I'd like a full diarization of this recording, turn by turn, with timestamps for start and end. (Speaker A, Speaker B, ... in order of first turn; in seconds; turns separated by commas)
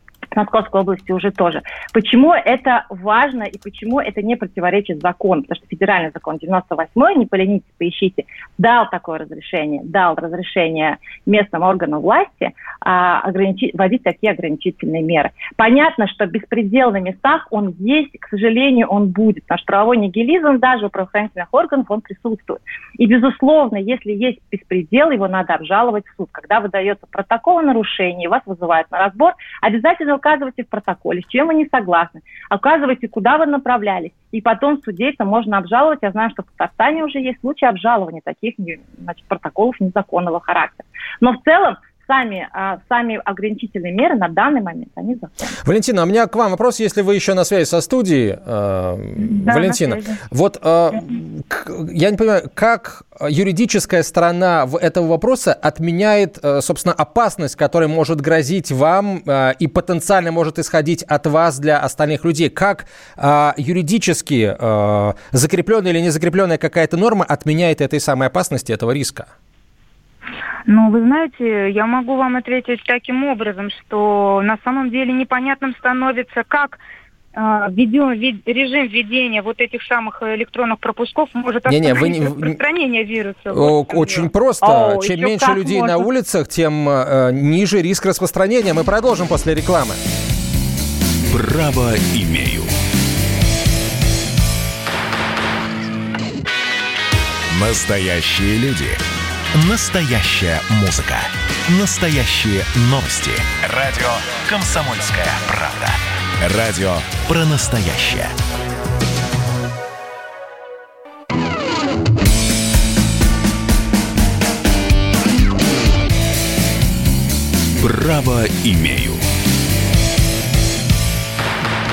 Speaker A: 0.3-45.5, Speaker B: 45.6-69.3, Speaker C: 49.3-50.2, Speaker C: 70.7-76.8, Speaker C: 77.3-84.3, Speaker B: 81.7-82.6, Speaker B: 83.5-90.0, Speaker A: 84.6-86.0, Speaker D: 91.3-92.7, Speaker D: 97.5-99.0, Speaker D: 99.5-108.3, Speaker D: 117.8-119.2